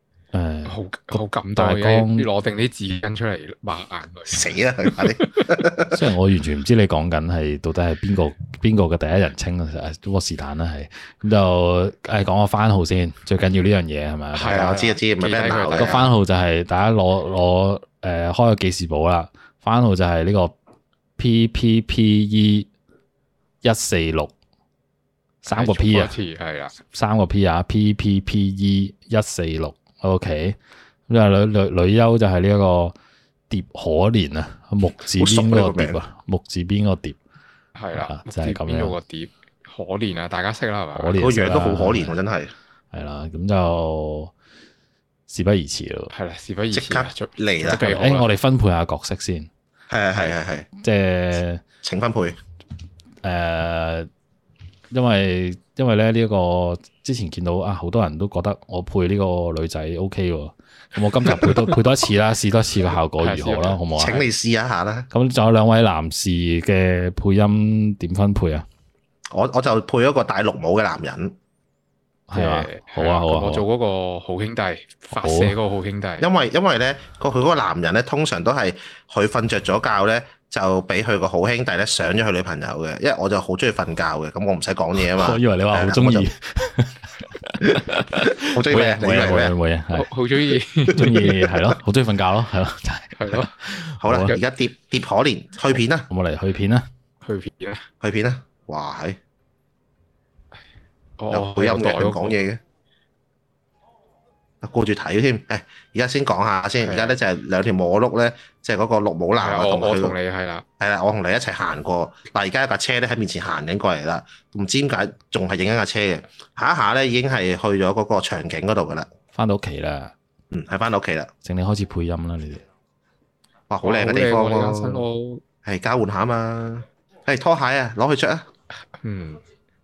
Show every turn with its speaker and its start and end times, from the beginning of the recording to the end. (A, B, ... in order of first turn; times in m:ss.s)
0:00.3-0:02.3 A
0:00.6-0:05.5 B
0:04.3-0:06.0 C
0:05.8-0:14.8 A
0:14.4-0:16.1 B
0:14.5-0:16.1 C
0:15.8-0:20.5 A
0:21.2-0:22.7 A
0:23.6-0:24.3 A
0:25.4-0:26.1 A
0:25.5-0:26.8 B
0:26.9-0:33.0 A
0:33.5-0:37.2 A
0:35.2-0:36.0 C
0:37.8-0:41.2 B
0:38.0-0:39.0 A
0:41.0-0:42.2 A
0:41.2-0:42.5 C
0:42.9-0:44.3 A
0:45.3-0:46.1 A
0:46.1-0:48.3 B
0:46.7-0:47.8 C
0:47.7-0:49.5 A
0:49.9-0:50.7 C
0:50.8-0:51.6 A
0:51.8-0:52.4 C
0:53.2-0:54.1 A
0:54.9-1:04.3 A
1:01.3-1:01.7 B
1:03.2-1:03.8 B
1:04.0-1:05.1 C
1:05.1-1:08.7 A
1:09.3-1:11.4 C
1:12.3-1:13.6 A
1:12.3-1:16.3 B
1:15.1-1:15.6 A
1:16.2-1:26.3 C
1:25.1-1:30.1 A
1:28.2-1:29.6 C
1:29.9-1:31.3 B
1:30.9-1:34.3 A
1:30.9-1:31.8 C
1:33.2-1:33.5 B
1:34.0-1:36.1 C
1:36.1-1:36.9 A
1:37.2-1:37.9 B
1:38.0-1:39.2 C
1:41.2-1:42.4 B
1:41.3-1:42.6 C
1:44.6-1:50.2 C
1:46.8-1:47.2 B
1:49.4-1:50.6 B
1:50.8-1:59.1 C
1:59.3-2:00.1 A
2:00.5-2:01.3 C
2:01.4-2:02.6 A
2:03.7-2:05.0 C
2:03.8-2:05.4 B
2:05.6-2:08.5 C
2:08.9-2:09.4 B